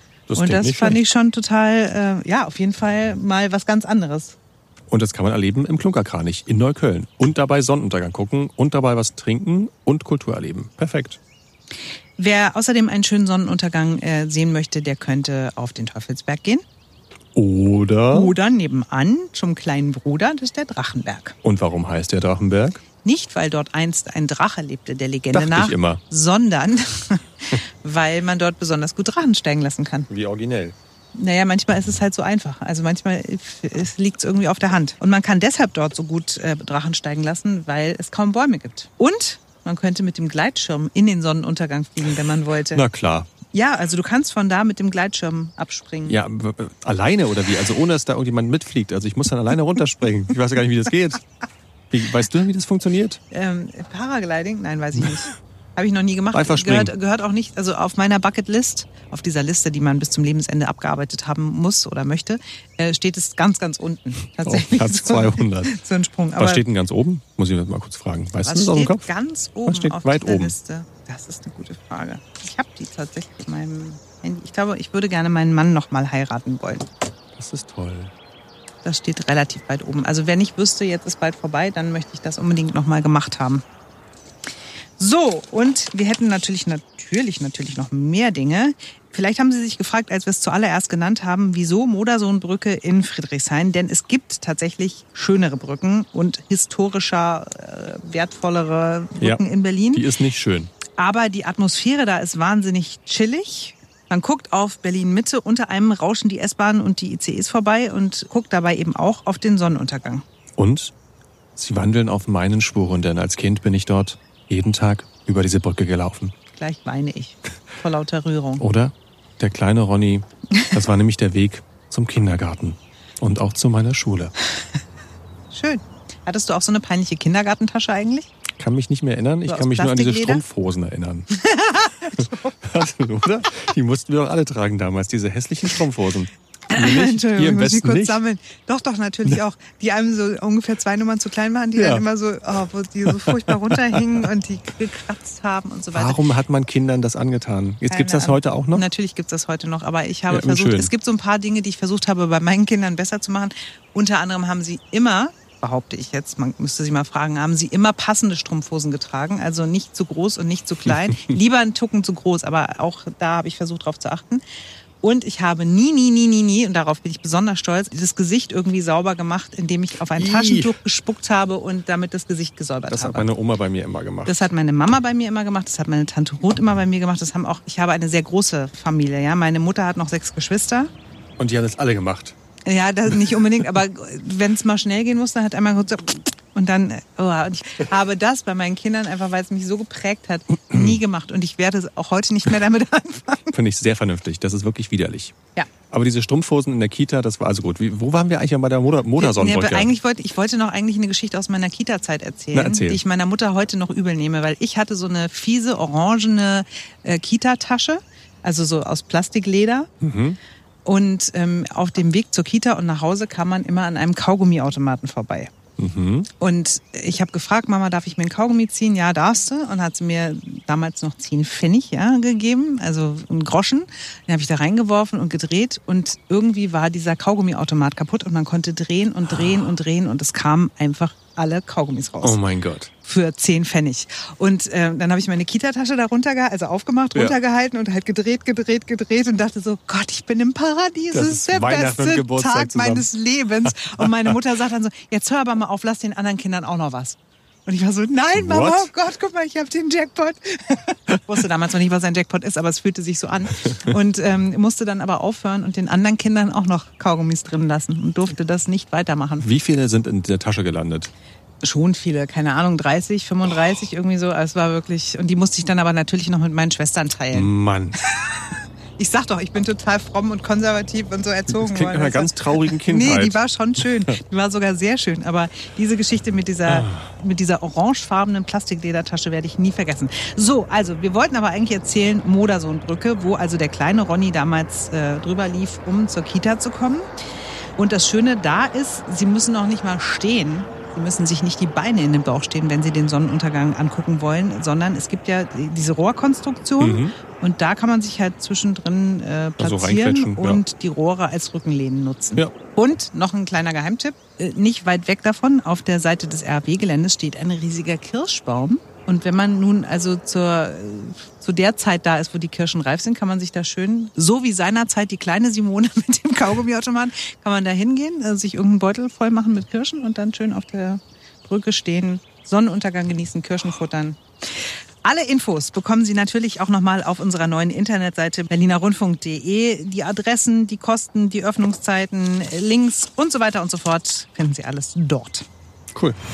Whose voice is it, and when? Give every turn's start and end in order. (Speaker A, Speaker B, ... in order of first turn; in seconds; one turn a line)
Speaker A: 0.3-1.1
Speaker B: 0.3-4.4
Speaker A: 4.9-11.2
Speaker B: 12.2-16.6
Speaker A: 17.3-18.3
Speaker B: 18.1-21.3
Speaker A: 21.4-22.8
Speaker B: 23.0-30.1
Speaker A: 25.3-26.0
Speaker A: 30.1-30.8
Speaker B: 31.1-42.8
Speaker A: 42.7-43.3
Speaker B: 43.5-46.2
Speaker A: 46.1-51.2
Speaker A: 51.9-53.2
Speaker B: 53.3-66.6
Speaker A: 56.3-56.9
Speaker A: 64.4-65.8
Speaker A: 66.4-69.1
Speaker B: 68.4-76.9
Speaker A: 69.7-70.5
Speaker A: 77.4-78.1
Speaker B: 78.8-83.6
Speaker B: 85.0-100.1
Speaker A: 99.2-100.7
Speaker B: 100.9-110.2
Speaker A: 110.6-110.9
Speaker A: 111.6-116.3
Speaker B: 116.6-118.6
Speaker A: 118.6-124.3
Speaker B: 125.5-128.3
Speaker A: 128.6-131.3
Speaker B: 129.5-130.4
Speaker B: 131.3-132.5
Speaker A: 132.2-138.2
Speaker B: 136.7-146.2
Speaker A: 141.8-142.1
Speaker A: 143.1-144.2
Speaker A: 145.9-148.8
Speaker B: 147.9-164.4
Speaker A: 150.3-150.9
Speaker A: 160.9-161.3
Speaker B: 165.0-173.3
Speaker A: 170.2-170.7
Speaker A: 172.9-174.5
Speaker B: 174.2-180.9
Speaker A: 181.4-182.4
Speaker B: 182.7-193.5
Speaker A: 193.5-195.3
Speaker A: 195.9-199.9
Speaker B: 199.2-209.9
Speaker A: 202.5-203.0
Speaker A: 210.0-210.4
Speaker B: 210.8-215.5
Speaker A: 215.8-216.3
Speaker B: 216.4-232.4
Speaker A: 232.2-232.9
Speaker B: 233.0-259.5
Speaker A: 241.1-243.1
Speaker A: 243.8-244.4
Speaker A: 248.3-248.9
Speaker A: 259.4-261.1
Speaker B: 261.6-267.5
Speaker A: 267.3-268.0
Speaker B: 268.0-287.1
Speaker A: 271.5-274.1
Speaker A: 276.6-277.1
Speaker B: 287.8-324.2
Speaker A: 296.8-297.1
Speaker A: 299.6-300.6
Speaker B: 325.0-335.5